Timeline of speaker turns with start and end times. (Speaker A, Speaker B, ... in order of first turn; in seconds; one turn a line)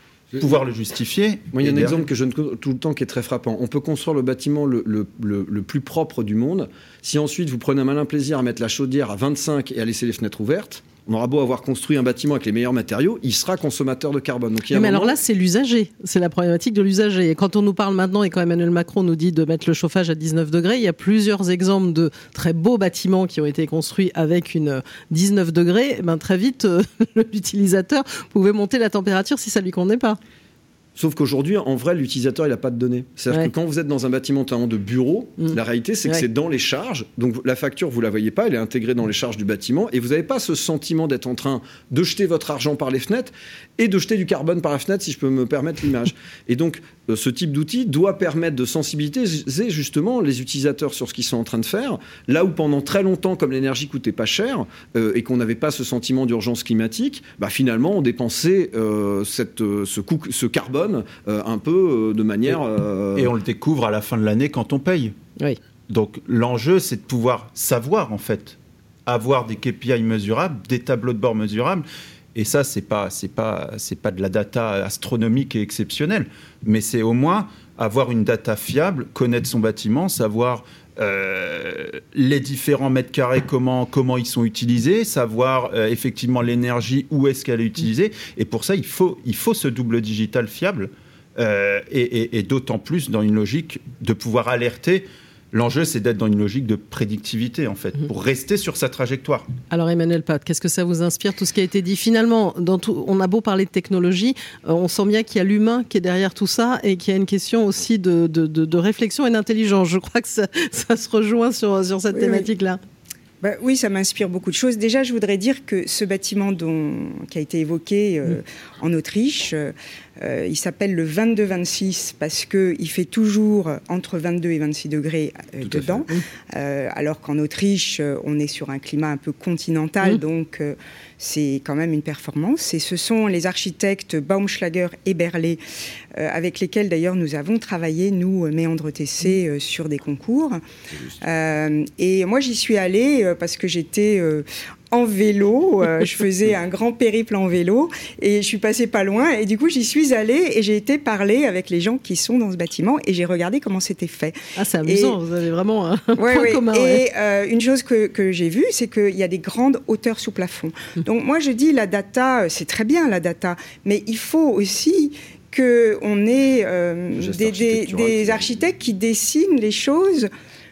Speaker A: 0.4-2.0
Speaker B: 1.5-15.2
Speaker C: 14.7-30.2
Speaker B: 31.0-63.3
Speaker C: 35.4-36.2
Speaker A: 63.1-65.1
Speaker A: 65.9-71.8
Speaker A: 72.3-99.5
Speaker C: 99.7-112.8
Speaker D: 112.1-112.5
Speaker D: 113.4-135.6
Speaker B: 125.6-126.0
Speaker D: 136.2-140.6
Speaker D: 141.2-155.2
Speaker C: 154.6-157.0
Speaker D: 156.2-170.3
Speaker B: 167.2-168.6